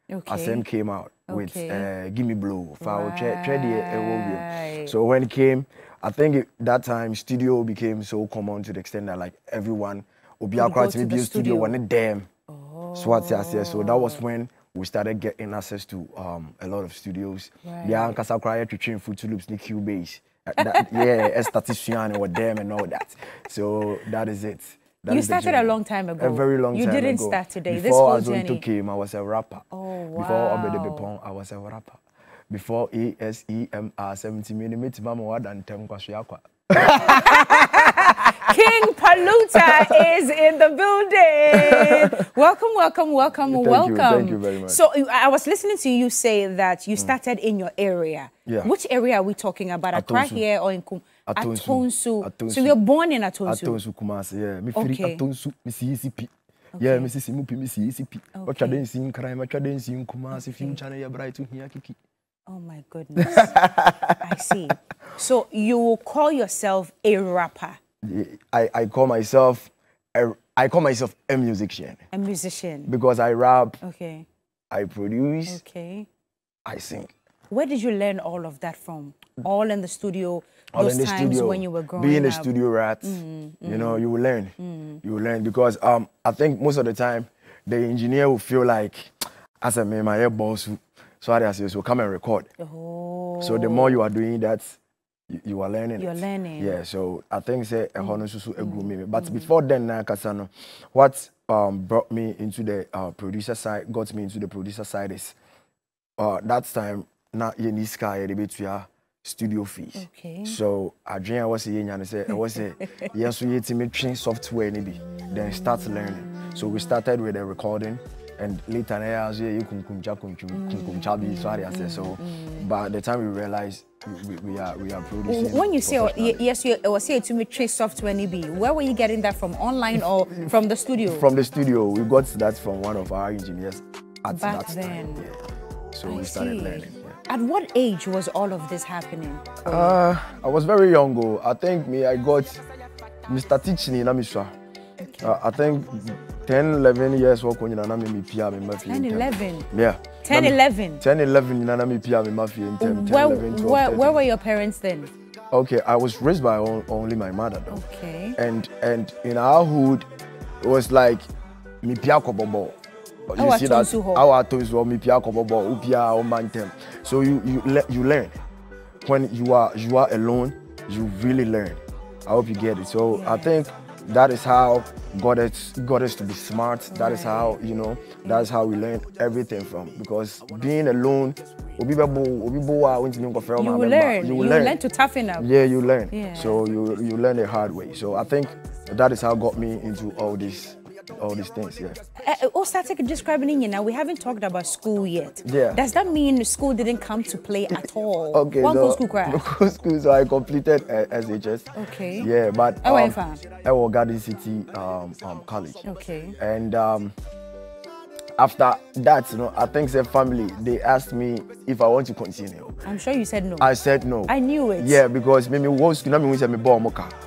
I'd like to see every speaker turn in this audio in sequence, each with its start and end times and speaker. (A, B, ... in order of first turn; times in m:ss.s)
0:00.1-0:00.6 A
0:00.3-0:12.3 B
0:01.3-0:01.9 A
0:02.8-0:04.9 A
0:10.6-0:11.8 A
0:12.5-0:14.2 A
0:12.9-0:38.9 B
0:17.6-0:18.2 A
0:20.6-0:21.3 A
0:25.1-0:28.6 A
0:29.7-0:31.1 A
0:36.8-0:53.8 A
0:39.5-0:40.0 B
0:41.5-0:42.1 B
0:43.4-0:44.8 B
0:48.4-0:48.7 B
0:49.9-0:50.4 B
0:51.3-0:52.7 B
0:53.4-1:02.0 B
0:54.7-0:55.2 A
0:56.8-0:57.1 A
0:58.3-0:58.8 A
1:00.3-1:00.8 A
1:02.5-1:03.6 A
1:03.2-1:04.2 B
1:04.2-1:07.8 A
1:08.0-1:12.0 B
1:12.1-1:12.9 A
1:12.9-1:13.8 B
1:13.8-1:14.2 A
1:14.7-1:15.6 B
1:15.5-1:16.1 A
1:16.6-1:17.1 B
1:17.5-1:22.5 A
1:20.7-1:32.5 B
1:23.0-1:24.0 A
1:24.6-1:25.0 A
1:32.6-1:34.0 A
1:33.4-1:34.7 B
1:35.3-1:45.3 B
1:36.0-1:36.8 A
1:38.0-1:39.5 A
1:46.2-2:06.4 B
1:50.0-1:50.6 A
1:55.1-1:57.0 A
2:00.5-2:02.7 A
2:05.3-2:11.2 A
2:11.0-2:15.4 B
2:14.3-2:15.2 A
2:15.9-2:17.1 B
2:16.0-2:20.0 A
2:19.6-2:22.6 B
2:23.3-2:24.5 B
2:25.0-2:25.4 A
2:25.2-2:34.2 B
2:28.9-2:29.7 A
2:30.2-2:31.0 A
2:32.8-2:35.1 A
2:35.5-2:37.8 B
2:37.7-2:38.4 A
2:38.4-2:40.0 B
2:40.6-2:41.2 B
2:41.8-2:42.7 B
2:43.3-2:48.3 B
2:43.4-2:44.3 A
2:49.0-3:04.8 B
2:53.1-2:53.5 A
2:56.9-2:57.6 A
3:03.6-3:05.5 A
3:05.4-3:12.0 B
3:06.1-3:06.6 A
3:12.2-3:19.4 A
3:15.4-3:15.8 B
3:17.7-3:21.7 B
3:21.7-3:22.3 A
3:22.2-3:25.8 B
3:22.8-3:23.4 A
3:25.8-3:26.4 A
3:26.4-3:27.1 B
3:28.4-3:32.8 B
3:32.8-3:33.7 A
3:33.6-3:37.1 B
3:34.3-3:35.0 A